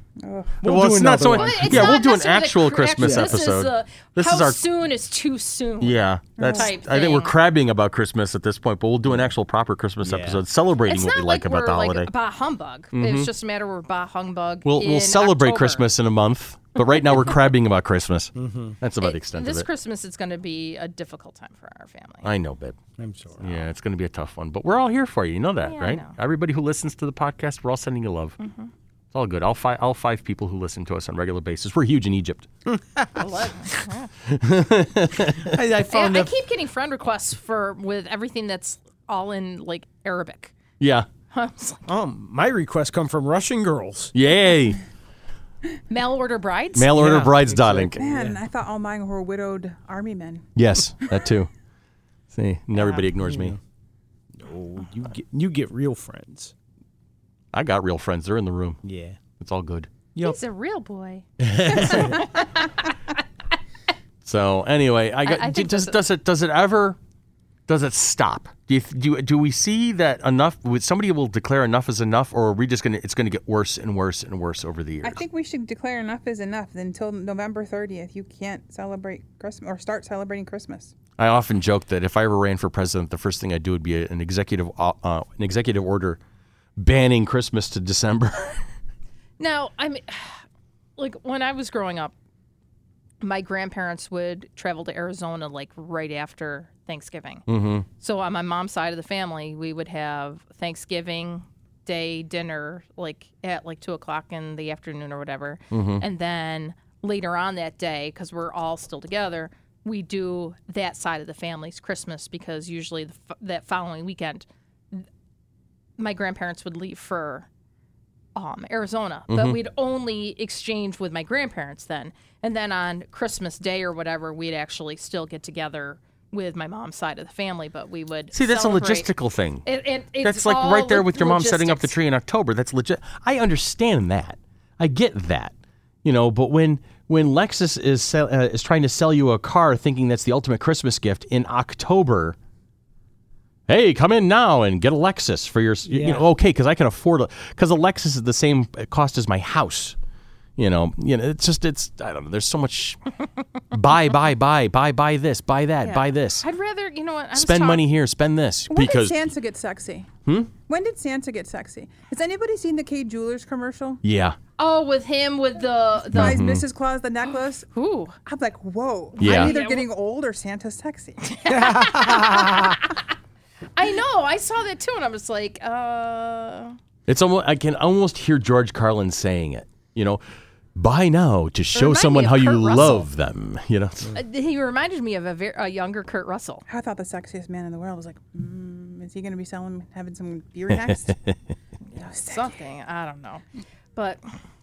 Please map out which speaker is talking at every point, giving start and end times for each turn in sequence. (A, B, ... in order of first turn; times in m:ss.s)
0:00.2-0:00.6 A
0:00.6-0:02.0 B
0:00.6-0:04.6 C
0:01.3-0:07.3 D
0:03.0-0:03.4 B
0:05.8-0:12.1 C
0:06.4-0:06.7 A
0:10.0-0:10.4 B
0:10.8-0:15.8 D
0:12.9-0:13.3 C
0:14.6-0:19.7 C
0:18.4-0:18.8 B
0:19.0-0:22.3 D
0:22.2-0:22.8 C
0:23.0-0:23.6 B
0:23.4-0:28.4 C
0:25.6-0:26.1 D
0:28.4-0:28.7 D
0:29.1-0:32.5 C
0:32.7-0:33.5 B
0:33.2-0:34.1 D
0:34.3-0:35.6 C
0:35.4-0:36.3 B
0:35.9-0:40.5 D
0:40.8-0:41.1 C
0:41.3-0:41.8 D
0:41.9-0:44.1 B
0:44.1-0:44.8 C
0:45.9-0:47.1 D
0:46.8-0:48.0 C
0:46.9-0:48.4 B
0:48.0-0:50.4 A
0:50.6-0:51.5 C
0:52.3-0:53.6 C
0:53.2-0:53.6 B
0:54.4-0:56.5 B
0:57.5-0:58.8 C
0:58.8-0:59.2 B
0:59.4-0:59.9 C
1:00.2-1:02.7 D
1:01.6-1:02.1 B
1:01.7-1:02.1 C
1:04.2-1:07.0 C
1:05.2-1:06.0 D
1:07.7-1:15.2 C
1:15.0-1:20.9 A
1:21.2-1:26.2 C
1:26.8-1:28.6 C
1:29.4-1:30.4 D
1:31.0-1:32.1 D
1:33.2-1:37.4 D
1:37.5-1:37.9 C
1:38.0-1:55.0 D
1:45.7-1:46.0 C
1:56.0-1:57.5 D
1:58.4-2:09.1 D
1:59.3-1:59.6 C
2:08.3-2:09.6 C
2:09.6-2:11.9 D
2:10.2-2:22.4 C
2:23.7-2:30.0 C
2:25.9-2:26.2 B
2:30.6-2:33.0 C
2:33.7-2:36.4 C
2:35.8-2:37.8 D
2:37.3-2:39.3 C
2:38.7-2:40.1 A
2:40.2-2:40.5 C
2:40.7-2:44.0 A
2:44.0-2:44.4 C
2:44.6-2:46.4 D
2:46.1-2:46.6 C
2:46.1-2:47.7 A
2:47.7-2:48.2 D
2:48.2-2:51.3 A
2:49.2-2:49.9 D
2:49.2-2:49.5 C
2:51.3-2:53.0 D
2:51.5-2:52.8 B
2:53.8-2:56.8 D
2:57.1-3:00.2 C
3:00.8-3:04.1 C
3:01.7-3:03.1 D
3:04.1-3:06.6 D
3:06.7-3:11.2 A
3:10.7-3:11.3 C
3:12.0-3:13.4 D
3:12.0-3:12.5 A
3:14.0-3:14.2 D